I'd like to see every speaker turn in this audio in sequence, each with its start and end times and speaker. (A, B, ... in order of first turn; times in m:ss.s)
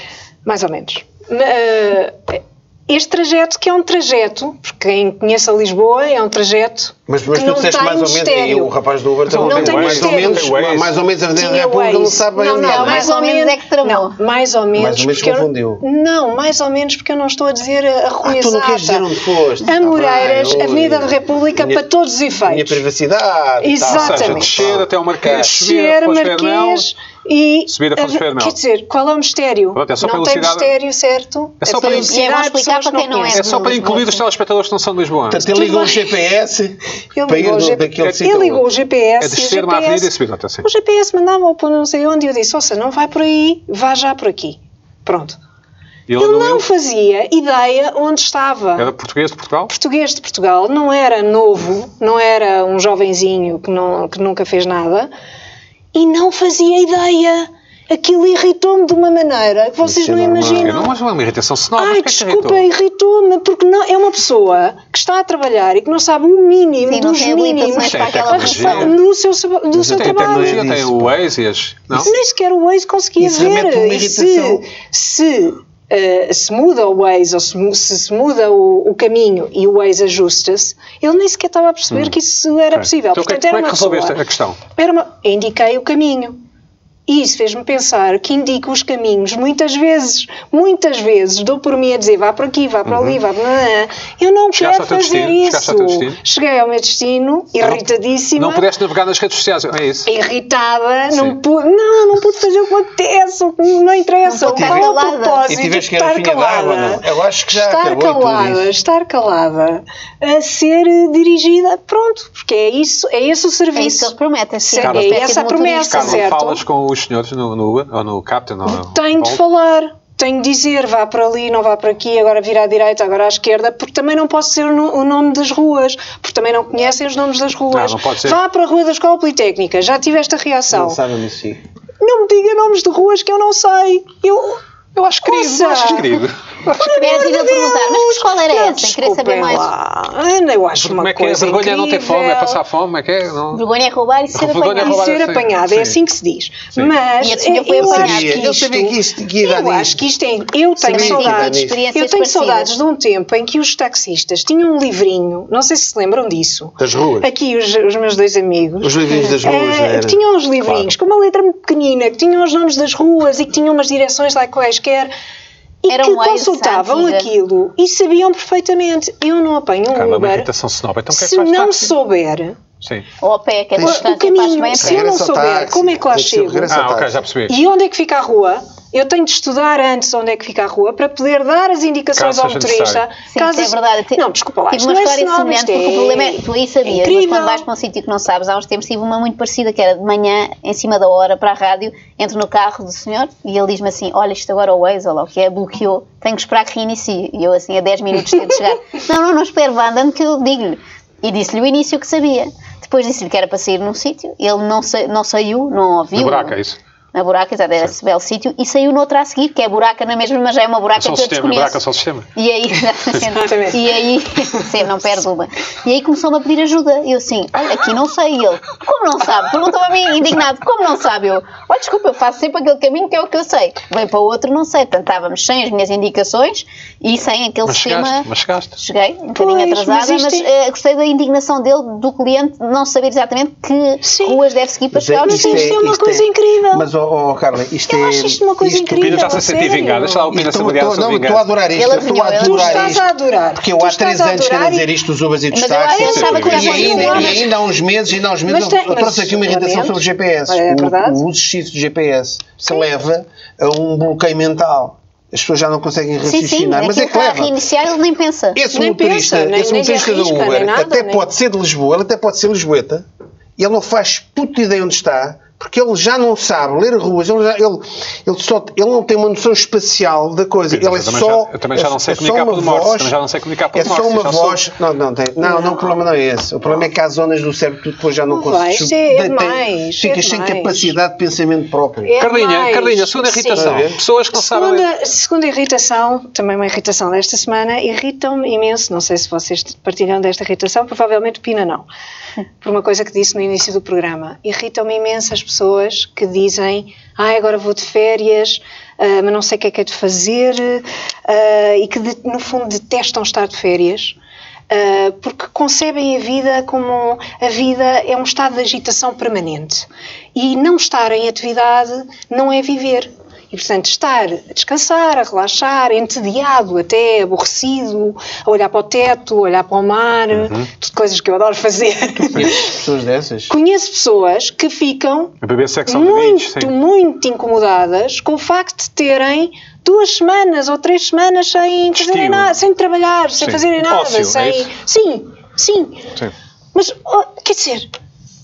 0:00.4-0:08.7 A
0:07.1-0:13.1 B
0:09.3-0:11.0 C
0:09.3-0:10.5 A
0:11.3-0:19.1 A
0:12.6-0:14.2 D
0:14.7-0:15.8 B
0:18.2-0:21.8 B
0:19.6-0:22.8 A
0:22.5-0:24.9 B
0:23.6-0:33.4 A
0:23.9-0:26.9 C
0:27.7-0:28.6 C
0:29.7-0:30.7 C
0:31.6-0:32.2 C
0:31.8-0:34.2 D
0:33.3-0:35.5 C
0:35.3-0:38.6 B
0:35.4-0:36.2 A
0:37.1-0:40.1 A
0:39.2-0:40.7 C
0:40.6-0:45.4 A
0:46.1-0:46.6 C
0:46.2-0:48.9 A
0:48.8-0:49.7 C
0:49.7-0:55.1 A
0:55.9-1:00.9 A
0:59.8-1:00.7 B
1:00.6-1:02.7 C
1:01.8-1:10.6 A
1:06.8-1:09.0 D
1:07.8-1:09.0 C
1:09.7-1:11.1 B
1:09.9-1:12.1 C
1:12.0-1:24.2 A
1:13.2-1:14.6 B
1:22.7-1:24.6 C
1:24.8-1:26.4 A
1:27.1-1:38.7 A
1:32.9-1:33.2 C
1:34.6-1:36.2 C
1:38.4-1:40.1 C
1:40.1-1:56.6 A
1:41.1-1:41.4 C
1:44.3-1:45.5 D
1:44.4-1:44.9 B
1:45.5-1:48.7 B
1:53.7-1:56.3 D
1:54.8-1:55.3 C
1:55.9-1:59.4 C
1:58.6-2:11.0 A
2:07.7-2:08.4 C
2:10.7-2:11.6 B
2:12.0-2:14.6 A
2:14.9-2:17.1 C
2:15.2-2:16.2 A
2:16.8-2:22.6 A
2:16.9-2:19.7 D
2:20.8-2:23.6 C
2:23.5-2:25.0 D
2:24.3-2:26.0 C
2:24.8-2:45.1 A
2:27.2-2:28.4 D
2:27.8-2:30.0 B
2:30.8-2:31.8 B
2:30.8-2:32.7 D
2:36.8-2:37.3 B
2:38.8-2:40.2 B
2:40.6-2:40.9 C
2:45.8-2:50.5 A
2:45.9-2:47.3 D
2:49.9-2:51.9 C
2:51.1-2:52.6 A
2:52.8-2:53.0 C
2:53.2-2:55.1 D
2:53.8-2:56.7 A
2:54.8-2:57.2 B
2:56.7-2:57.6 C
2:57.5-3:07.6 A
3:02.1-3:03.0 C
3:03.3-3:26.6 D
3:26.1-3:26.8 C
3:27.1-3:31.8 D
3:31.0-3:32.3 C
3:32.4-3:55.8 D
3:33.3-3:33.8 A
3:47.6-3:48.8 C
3:49.4-3:50.5 A
3:54.0-3:54.4 A
3:54.9-3:59.4 B
3:55.3-3:56.8 A
3:57.9-4:00.2 A
3:59.0-4:01.5 C
4:00.3-4:17.5 B
4:01.7-4:03.0 D
4:02.3-4:04.9 A
4:05.5-4:07.5 D
4:05.9-4:07.5 A
4:06.0-4:06.9 C
4:08.4-4:11.2 A
4:16.2-4:18.6 D
4:18.5-4:23.0 B
4:18.7-4:21.2 A
4:23.6-4:33.2 B
4:30.7-4:34.6 C
4:33.7-4:42.1 B
4:35.4-4:35.9 A
4:38.3-4:40.9 A
4:42.0-4:51.9 A
4:42.2-4:44.9 C
4:43.6-4:44.0 B
4:52.6-5:04.2 A
5:04.7-5:22.8 A
5:20.3-5:20.7 C
5:22.3-5:23.5 B
5:23.5-5:25.4 A
5:25.4-5:26.7 C
5:25.9-5:36.1 A
5:31.9-5:32.5 C
5:33.4-5:34.7 C
5:36.7-5:37.9 A